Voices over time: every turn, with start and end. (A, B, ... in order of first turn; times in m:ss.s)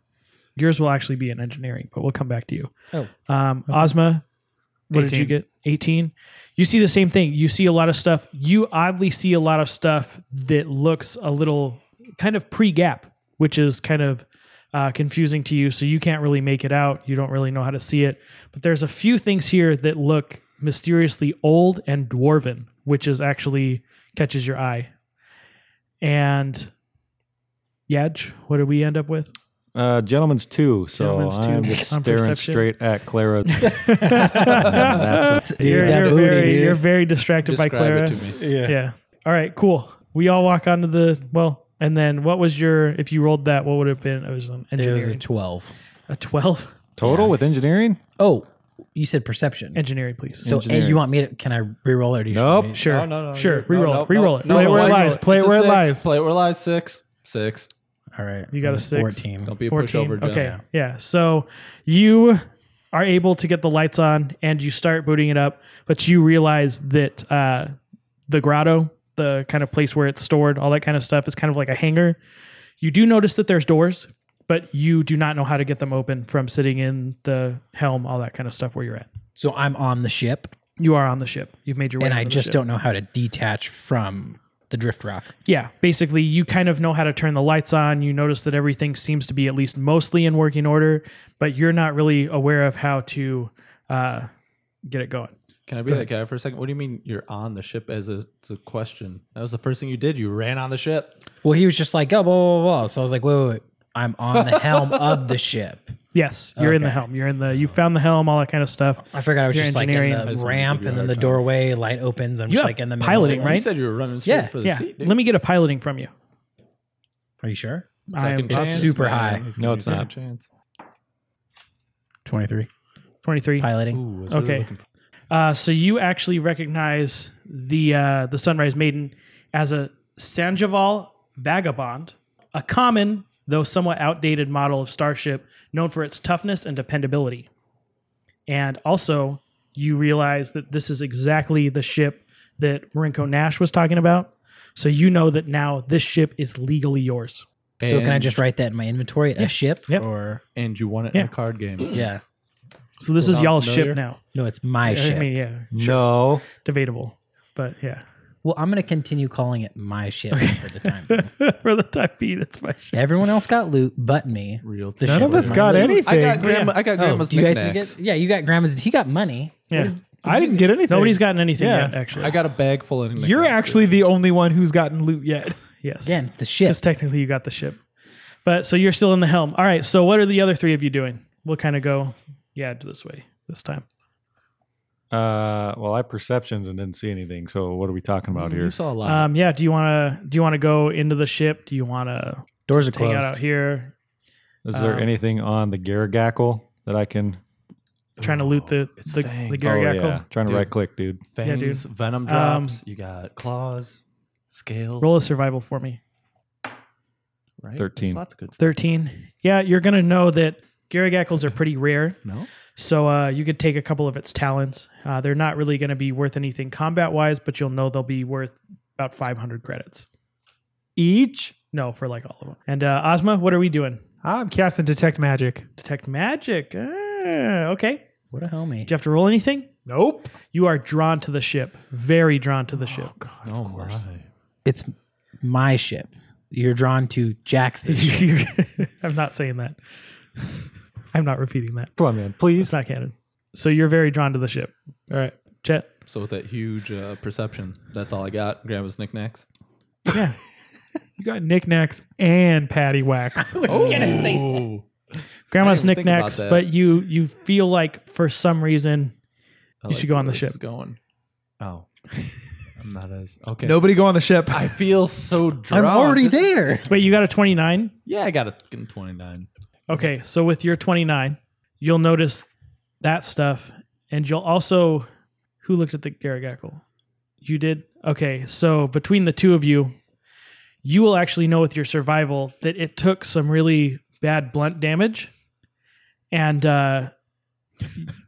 0:00.6-0:02.7 A
0:03.3-0:04.2 A
0:04.9-0:24.9 A
0:04.9-0:05.4 B
0:26.0-0:26.7 A
0:27.9-0:29.3 A
0:29.7-0:36.6 C
0:30.9-0:32.6 A
0:33.5-0:45.2 A
0:34.1-0:36.8 D
0:37.4-0:38.4 E
0:38.3-0:38.8 D
0:44.8-0:45.7 D
0:46.1-0:46.7 A
0:47.0-0:48.0 C
0:47.0-0:47.3 D
0:48.2-0:49.8 D
0:49.7-0:50.6 A
0:50.4-0:51.0 C
0:50.4-0:52.8 D
0:52.3-0:52.7 C
0:52.7-0:55.2 A
0:52.8-0:57.7 E
0:54.4-0:56.1 B
0:58.1-0:59.5 D
0:58.5-1:07.8 A
0:59.4-1:00.5 E
1:00.3-1:00.6 D
1:08.3-1:12.2 A
1:12.8-1:19.1 A
1:19.4-1:20.5 D
1:20.8-1:22.6 A
1:22.0-1:25.3 D
1:25.4-1:34.3 A
1:34.8-1:35.3 A
1:35.7-1:41.2 E
1:41.4-1:45.9 D
1:46.1-1:50.3 A
1:46.6-1:47.0 D
1:49.0-1:53.7 D
1:50.2-1:51.4 E
1:52.5-1:53.7 A
1:53.1-1:55.2 E
1:54.2-1:54.5 D
1:54.6-1:56.1 A
1:57.4-1:57.9 D
1:58.1-1:58.9 A
1:58.1-2:00.5 E
1:58.5-1:59.4 D
1:59.6-2:00.1 C
2:02.2-2:02.7 D
2:03.2-2:03.7 A
2:03.6-2:04.0 D
2:03.9-2:04.8 E
2:04.3-2:04.7 A
2:05.3-2:17.5 A
2:18.5-2:27.4 A
2:27.8-2:28.4 E
2:27.8-2:30.4 D
2:29.4-2:30.0 A
2:30.6-2:32.0 E
2:31.9-2:32.2 D
2:33.0-2:34.2 A
2:33.2-2:34.0 E
2:34.3-2:35.3 D
2:34.8-2:38.0 A
2:35.7-2:36.4 C
2:38.4-2:41.3 D
2:40.3-2:43.0 A
2:42.9-2:46.0 D
2:44.6-2:48.0 E
2:45.0-2:46.5 B
2:46.4-2:46.8 A
2:46.9-2:49.9 D
2:49.7-2:52.4 A
2:50.2-2:52.0 B
2:52.2-2:54.0 E
2:53.1-2:55.5 B
2:55.2-2:57.8 A
2:56.0-2:56.8 D
2:58.4-3:03.8 A
3:05.1-3:08.8 C
3:08.3-3:09.3 E
3:09.0-3:13.9 A
3:12.7-3:13.4 D
3:14.6-3:17.4 C
3:14.7-3:15.1 A
3:18.2-3:19.8 E
3:18.2-3:20.2 A
3:19.6-3:21.2 C
3:20.4-3:20.7 E
3:21.2-3:25.1 E
3:21.4-3:22.8 A
3:25.0-3:26.0 A
3:27.6-3:28.8 E
3:27.8-3:28.2 C
3:28.6-3:32.2 A
3:32.7-3:40.1 A
3:41.0-3:41.5 C
3:41.7-3:44.0 A
3:44.2-3:45.6 B
3:45.8-3:48.0 A
3:48.3-3:48.9 D
3:48.9-3:49.7 A
3:49.9-3:50.3 B
3:50.4-3:53.1 A
3:52.7-3:54.1 B
3:53.4-3:54.2 E
3:54.6-3:58.3 D
3:57.8-3:59.8 A
4:00.4-4:01.9 A
4:02.0-4:02.7 C
4:02.6-4:05.9 A
4:06.0-4:09.4 E
4:10.1-4:10.4 A
4:11.2-4:14.1 B
4:13.4-4:14.6 D
4:13.6-4:14.8 E
4:15.5-4:19.1 A
4:15.6-4:16.7 E
4:19.8-4:21.0 E
4:19.9-4:20.6 A
4:21.6-4:21.9 E
4:22.8-4:26.5 E
4:23.6-4:24.9 B
4:25.7-4:26.9 D
4:26.9-4:27.9 A
4:28.1-4:29.5 E
4:29.9-4:32.5 A
4:33.0-4:35.1 A
4:35.6-4:36.8 A
4:37.4-4:40.0 A
4:40.8-4:45.3 A
4:46.3-4:47.1 A